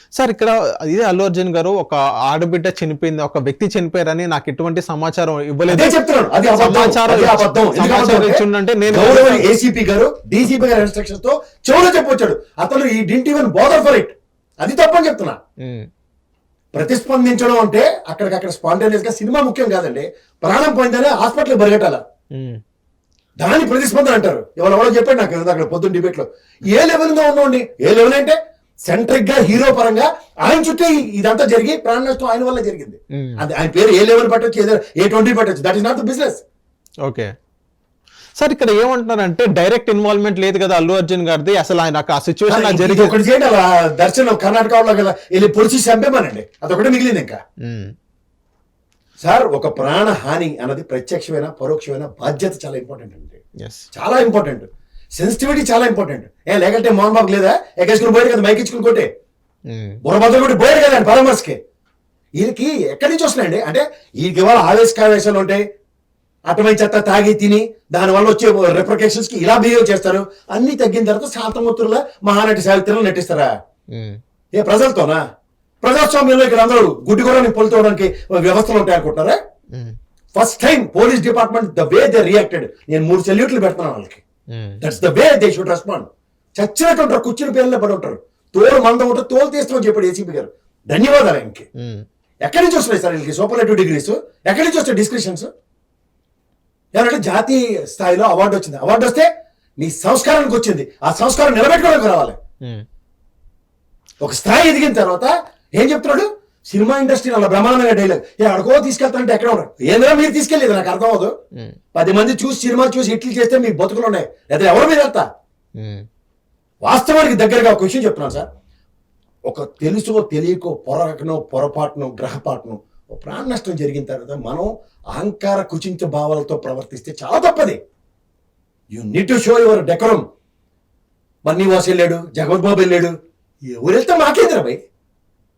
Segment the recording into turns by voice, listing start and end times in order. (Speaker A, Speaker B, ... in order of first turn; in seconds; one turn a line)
Speaker A: 0.2-6.0
Speaker B: 5.7-15.4
Speaker A: 6.5-9.5
Speaker B: 16.7-22.0
Speaker A: 22.3-22.6
Speaker B: 23.4-36.4
Speaker A: 33.2-33.4
Speaker A: 37.0-37.3
Speaker A: 38.4-43.1
Speaker B: 42.5-47.4
Speaker A: 47.6-47.9
Speaker B: 49.2-53.4
Speaker A: 53.6-53.9
Speaker B: 53.9-54.7
Speaker B: 55.2-59.1
Speaker A: 59.7-60.0
Speaker B: 60.0-61.6
Speaker B: 62.4-65.6
Speaker B: 66.5-73.5
Speaker A: 73.9-74.2
Speaker B: 74.5-75.2
Speaker B: 75.8-79.4
Speaker B: 80.3-84.2
Speaker A: 84.5-84.8
Speaker B: 84.8-91.7
Speaker A: 91.8-92.0
Speaker B: 92.4-95.5
Speaker B: 96.9-102.4
Speaker B: 104.2-111.3
Speaker B: 111.9-115.3
Speaker A: 115.8-116.0
Speaker B: 116.8-118.5
Speaker B: 119.5-127.8
Speaker B: 128.9-130.2
Speaker B: 131.4-133.1
Speaker B: 133.7-134.8